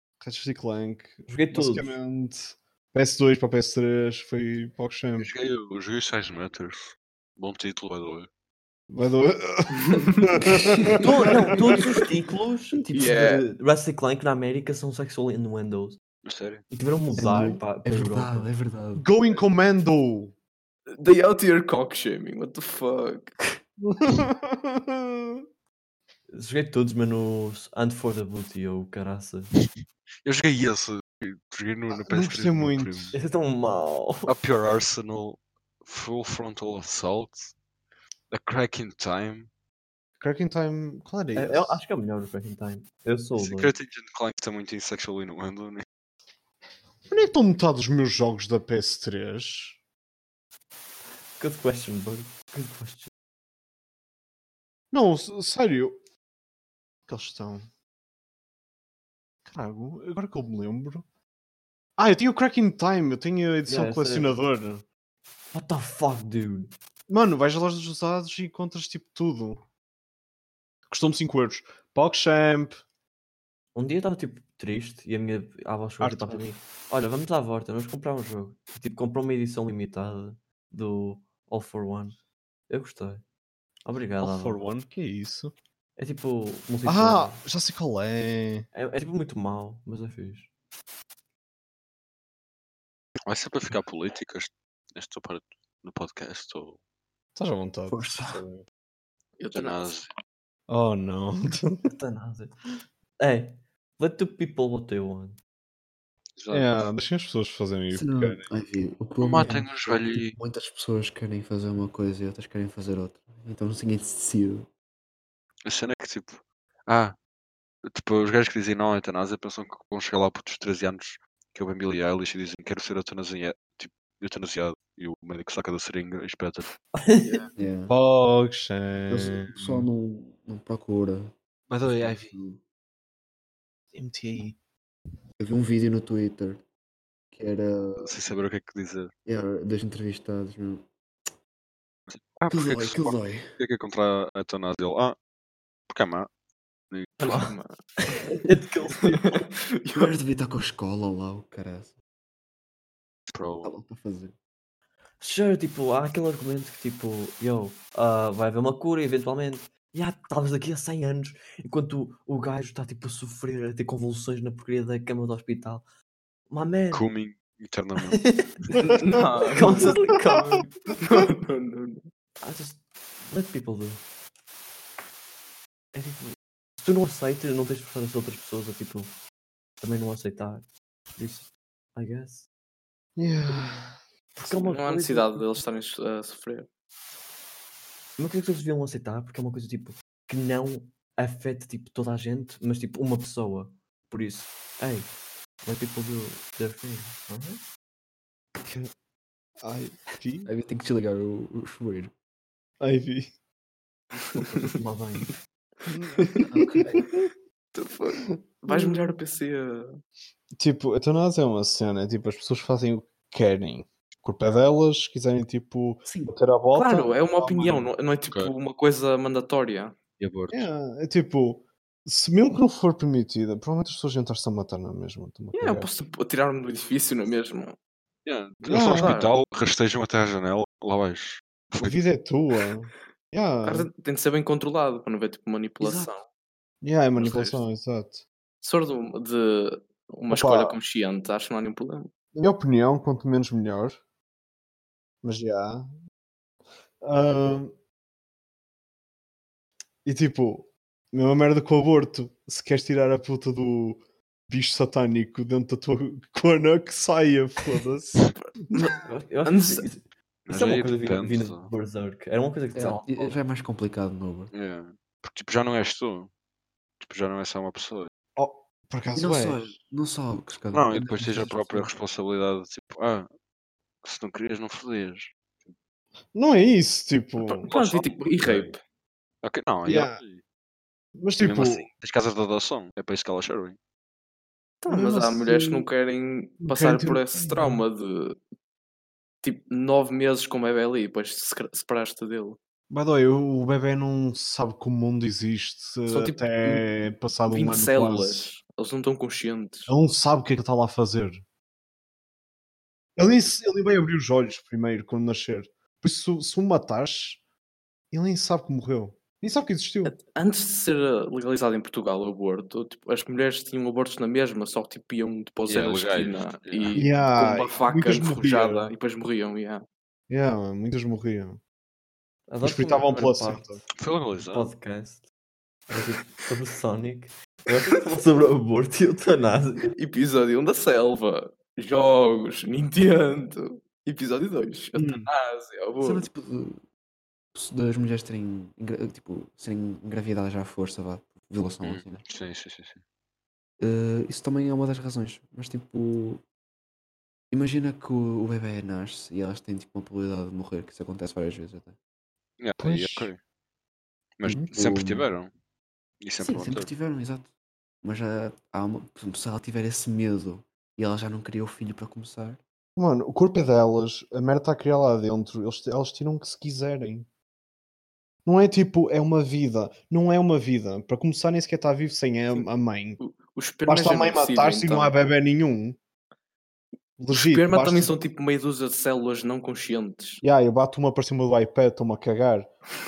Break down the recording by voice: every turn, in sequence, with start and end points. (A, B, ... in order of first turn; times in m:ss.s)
0:00.2-0:05.3 A
0:01.3-0:02.0 B
0:05.2-0:08.3 C
0:08.9-0:11.8 A
0:09.9-0:10.9 D
0:11.0-0:16.0 B
0:12.9-0:13.5 D
0:16.2-0:16.6 C
0:16.7-0:18.5 B
0:17.2-0:19.0 E
0:17.2-0:17.6 A
0:18.9-0:20.3 A
0:21.0-0:23.4 D
0:23.8-0:25.0 A
0:26.3-0:29.5 B
0:30.2-0:33.2 C
0:31.9-0:33.2 A
0:33.1-0:34.3 B
0:34.2-0:37.5 C
0:38.3-0:39.5 C
0:40.2-0:41.8 A
0:41.3-0:43.7 B
0:43.4-0:45.8 C
0:47.1-0:49.8 A
0:51.4-0:53.1 B
0:54.9-0:56.0 A
0:57.1-0:57.6 A
0:59.4-1:01.0 A
1:02.0-1:04.8 A
1:03.7-1:04.3 B
1:05.5-1:06.7 B
1:07.1-1:09.6 A
1:10.9-1:12.8 A
1:13.7-1:22.2 B
1:16.0-1:16.5 A
1:22.7-1:23.2 B
1:23.8-1:24.6 B
1:24.2-1:25.5 A
1:26.0-1:27.4 B
1:26.8-1:28.7 A
1:28.7-1:30.5 B
1:33.3-1:36.8 C
1:37.4-1:38.6 A
1:37.9-1:38.4 E
1:39.4-1:40.0 D
1:39.5-1:40.1 C
1:40.7-1:41.9 A
1:41.9-1:42.5 B
1:43.2-1:45.4 B
1:46.4-1:46.7 C
1:46.5-1:48.5 A
1:47.9-1:54.7 E
1:49.2-1:50.4 C
1:55.6-1:57.2 C
1:57.8-2:06.7 C
2:06.9-2:07.5 B
2:07.6-2:07.9 E
2:07.9-2:09.9 A
2:09.1-2:11.3 E
2:11.7-2:12.4 A
2:11.8-2:12.6 E
2:13.9-2:14.6 A
2:15.4-2:16.6 E
2:17.3-2:18.2 E
2:18.0-2:19.1 C
2:19.2-2:20.8 E
2:22.1-2:25.2 C
2:22.5-2:23.5 E
2:25.9-2:26.3 C
2:26.9-2:27.2 C
2:27.2-2:27.5 B
2:27.2-2:27.8 D
2:28.4-2:29.5 B
2:29.1-2:30.1 D
2:29.9-2:31.9 E
2:33.3-2:33.7 C
2:33.6-2:34.3 E
2:35.2-2:45.8 B
2:46.5-2:47.1 B
2:46.9-2:48.2 C
2:48.1-2:48.6 B
2:48.7-2:50.2 D
2:49.1-2:49.7 A
2:49.4-2:50.7 B
2:51.0-2:52.0 D
2:52.4-2:54.0 B
2:55.9-2:59.1 B
2:59.8-3:00.6 B
3:01.2-3:02.5 B
3:03.2-3:04.0 A
3:04.3-3:05.6 B
3:04.5-3:06.7 D
3:08.2-3:17.6 B
3:19.6-3:20.5 A
3:20.4-3:22.1 E
3:22.8-3:23.3 A
3:24.3-3:25.3 B
3:25.9-3:27.0 A
3:26.2-3:26.5 D
3:26.5-3:27.0 E
3:27.7-3:30.0 D
3:28.3-3:29.1 A
3:30.6-3:37.9 A
3:36.0-3:36.3 E
3:36.7-3:40.0 D
3:40.2-3:40.7 C
3:40.5-3:45.9 A
3:45.5-3:47.7 D
3:48.2-3:52.0 C
3:48.6-3:49.2 A
3:48.7-3:49.3 D
3:51.8-3:53.9 A
3:53.6-3:56.2 D
3:55.8-3:56.1 B
3:56.8-3:58.2 A
3:57.2-3:57.6 D
3:58.6-4:02.1 D
4:00.3-4:00.8 A
4:02.3-4:04.0 A
4:05.2-4:05.9 A
4:07.0-4:07.7 A
4:10.0-4:18.9 A
4:18.2-4:19.9 D
4:19.0-4:23.4 B
4:20.5-4:21.7 C
4:22.7-4:24.5 E
4:24.5-4:26.3 C
4:27.0-4:28.1 C
4:28.4-4:29.7 A
4:29.1-4:31.9 E
4:30.7-4:33.3 C
4:34.0-4:35.7 C
4:36.3-4:37.7 A
4:37.4-4:38.8 D
4:37.7-4:38.7 C
4:39.4-4:40.4 C
4:39.8-4:40.2 A
4:41.2-4:41.9 A
4:41.4-4:43.8 C
4:44.8-4:48.4 D
4:44.9-4:45.9 A
4:46.6-4:47.8 A
4:49.4-4:52.6 D
4:52.9-4:58.5 A
4:56.0-4:56.9 D
4:57.5-4:59.9 D
4:59.9-5:01.4 A
5:03.2-5:07.4 A
5:08.1-5:10.2 A
5:10.0-5:19.8 D
5:15.6-5:17.1 C
5:16.9-5:18.9 A
5:20.3-5:21.6 A
5:22.5-5:23.8 B
5:22.6-5:23.8 A
5:24.0-5:24.7 C
5:24.4-5:25.3 B
5:25.9-5:29.9 B
5:29.9-5:36.3 D
5:35.0-5:35.3 A
5:36.0-5:36.8 E
5:37.5-5:42.2 E
5:41.8-5:43.0 C
5:43.8-5:46.4 E
5:47.5-5:52.0 E
5:52.6-5:53.4 C
5:52.8-5:53.3 A
5:54.4-5:55.5 C
5:54.4-5:55.3 E
5:56.2-5:56.9 C
5:56.4-5:57.5 E
5:58.0-6:02.6 E
6:03.0-6:07.3 A
6:08.4-6:13.2 A
6:12.5-6:15.2 D
6:13.8-6:16.0 A
6:17.2-6:18.1 A
6:17.3-6:20.4 D
6:20.4-6:22.7 A